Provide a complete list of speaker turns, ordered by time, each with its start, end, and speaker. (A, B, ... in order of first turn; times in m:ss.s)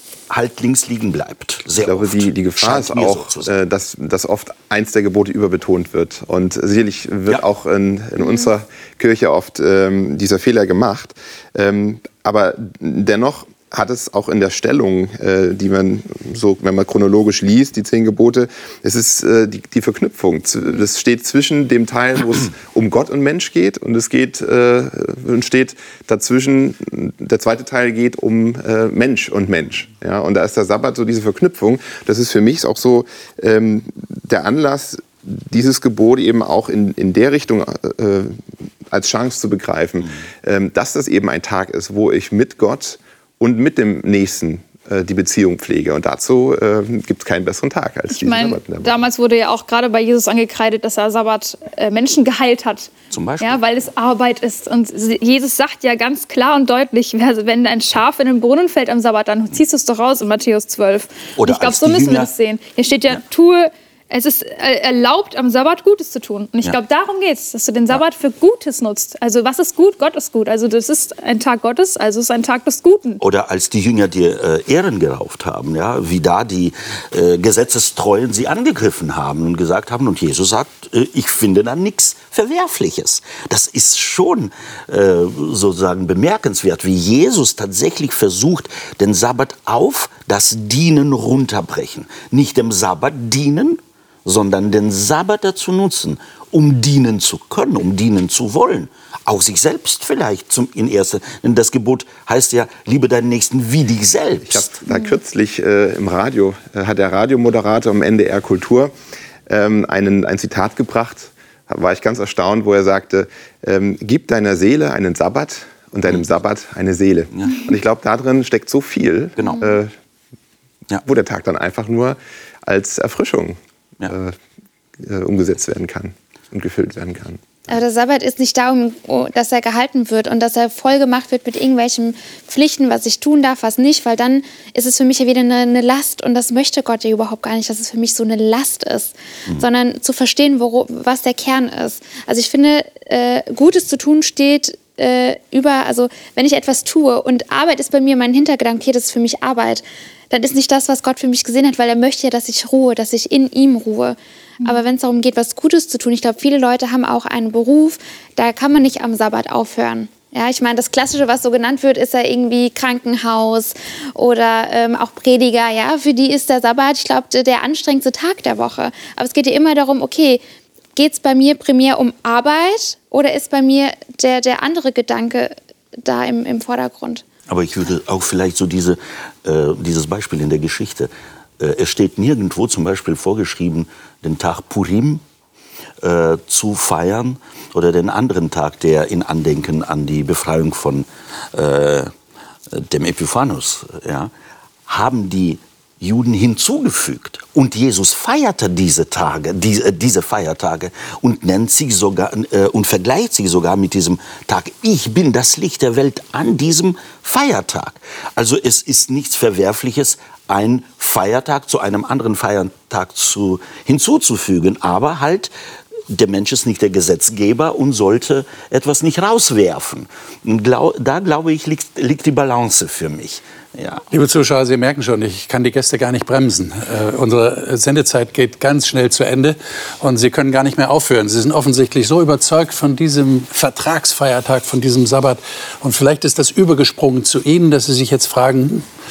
0:00.3-0:03.5 A
0:01.8-0:48.9 B
0:48.1-1:13.2 C
0:53.1-0:53.6 A
1:01.4-1:02.3 A
1:13.2-1:44.6 A
1:44.5-1:48.9 B
1:49.5-1:59.9 B
1:57.3-1:57.7 A
1:59.4-1:59.7 A
2:01.0-2:03.6 B
2:04.1-2:04.4 B
2:05.0-2:07.8 B
2:07.7-2:50.4 D
2:51.0-2:57.2 D
2:57.5-3:05.2 A
3:06.0-3:12.1 A
3:12.7-3:14.3 A
3:14.9-3:35.5 A
3:36.1-3:44.0 A
3:44.1-3:58.8 E